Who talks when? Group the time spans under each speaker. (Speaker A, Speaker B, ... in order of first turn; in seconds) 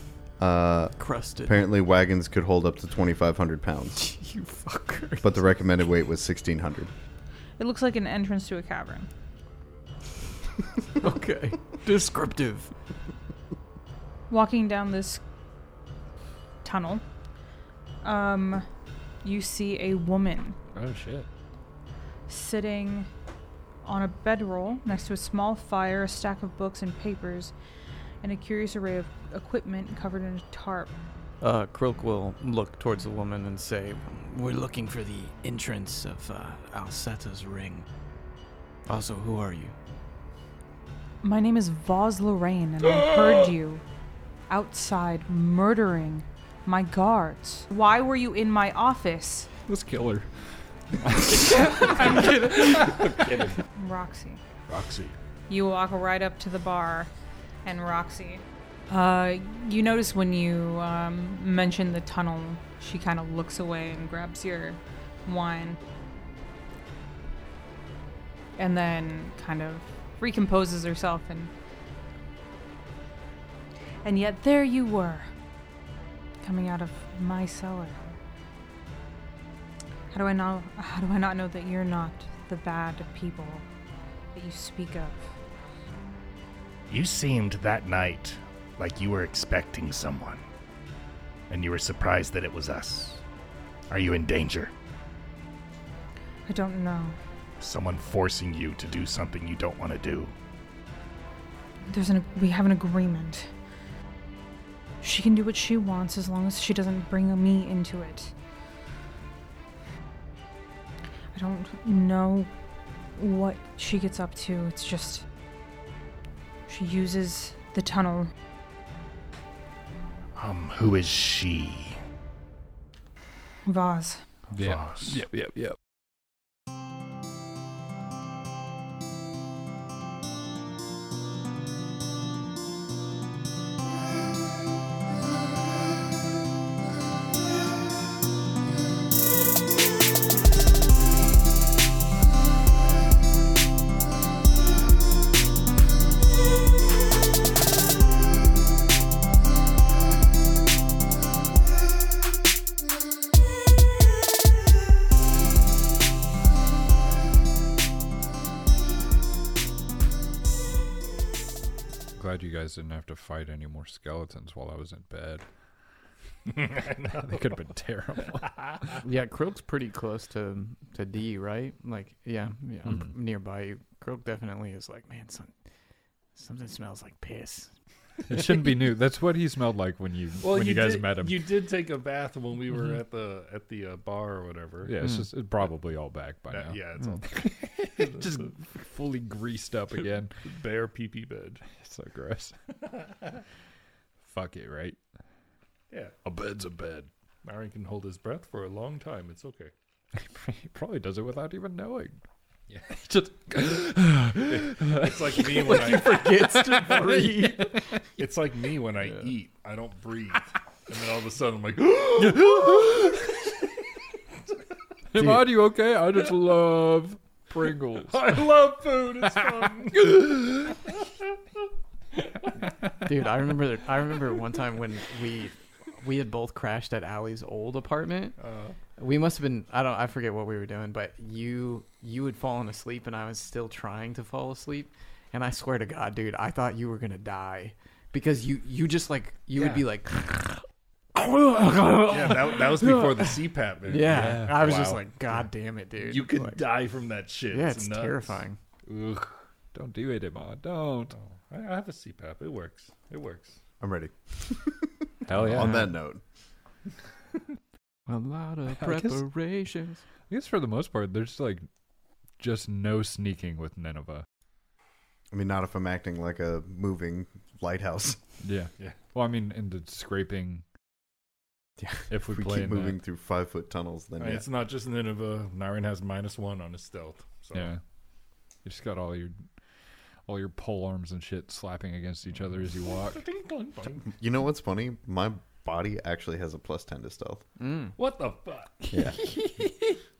Speaker A: 0.4-4.0, 5.2-6.9, 253.8-256.2, 265.3-268.2, 271.8-274.4, 284.1-287.4, 288.9-289.2
Speaker B: 1.0-1.6, 4.0-5.4, 11.0-12.7, 31.4-37.9, 38.9-39.7, 169.0-175.5, 176.3-177.7, 185.0-185.3, 205.4-208.0, 215.2-215.5, 223.0-228.4, 229.0-246.7, 247.5-248.6, 258.1-260.0, 287.6-287.9
Speaker C: 7.6-9.1, 14.3-15.2, 16.6-17.0, 18.0-18.6, 19.2-20.6, 22.3-23.1, 23.8-27.5, 28.2-30.9, 41.2-43.8, 44.5-49.5, 53.7-54.4, 55.5-57.1, 57.6-65.8, 68.6-71.5, 74.0-75.3, 76.4-78.0, 80.1-83.7, 84.3-85.3, 96.5-97.2, 101.9-103.5, 105.0-108.3, 111.3-112.5, 113.1-115.2, 116.7-118.3, 123.7-124.2
Speaker D: 20.7-21.3, 52.8-53.5, 54.7-55.1, 86.9-90.4, 91.5-93.2, 93.9-94.7, 97.6-100.3, 120.3-122.0, 124.5-125.2, 166.5-167.5, 168.3-169.0, 180.4-184.9, 186.5-188.4, 190.4-191.6, 192.9-193.4, 195.9-196.2, 197.4-199.7, 204.5-207.1, 208.2-213.5, 218.0-221.1, 228.4-228.8, 242.0-245.4, 246.0-248.4, 251.1-253.6, 274.2-277.7, 283.1-284.1, 288.0-288.9
Speaker E: 49.6-50.3, 50.9-53.5, 124.5-125.8, 162.2-165.4, 167.1-169.0, 172.8-173.1, 178.3-181.4, 184.8-190.4, 191.7-192.6, 194.2-195.0, 196.2-197.1, 200.2-202.2, 202.9-205.7, 206.5-207.9, 212.2-213.3, 215.1-218.5, 219.2-220.7, 244.1-244.8, 248.9-251.1, 255.3-255.9, 258.8-259.2, 260.3-261.7, 262.4-264.2, 268.4-270.6, 272.1-273.0, 277.5-277.8, 278.6-279.4, 280.2-283.2, 289.0-289.8